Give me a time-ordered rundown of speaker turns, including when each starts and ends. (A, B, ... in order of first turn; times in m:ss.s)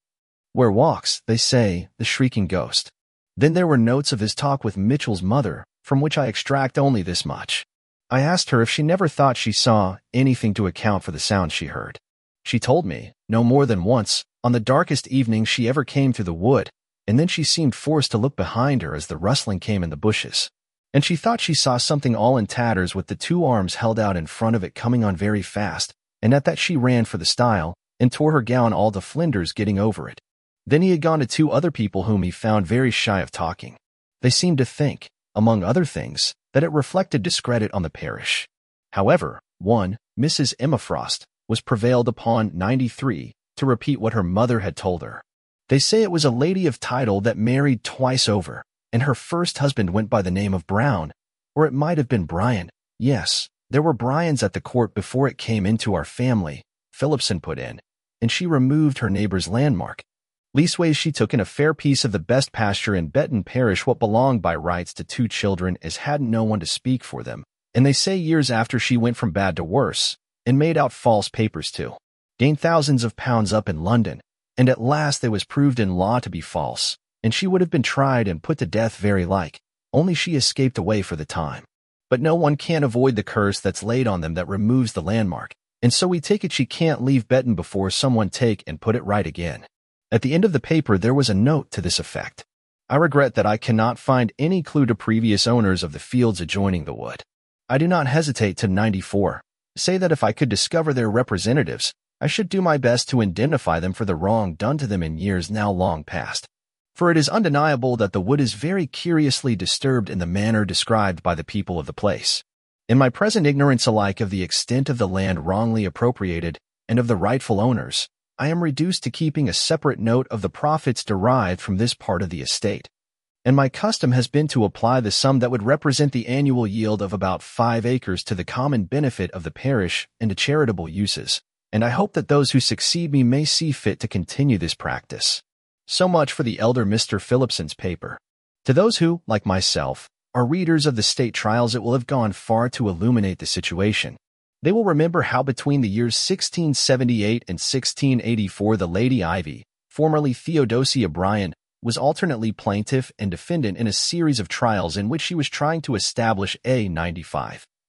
0:00.5-2:02.9 A
2:03.4-2:37.6 A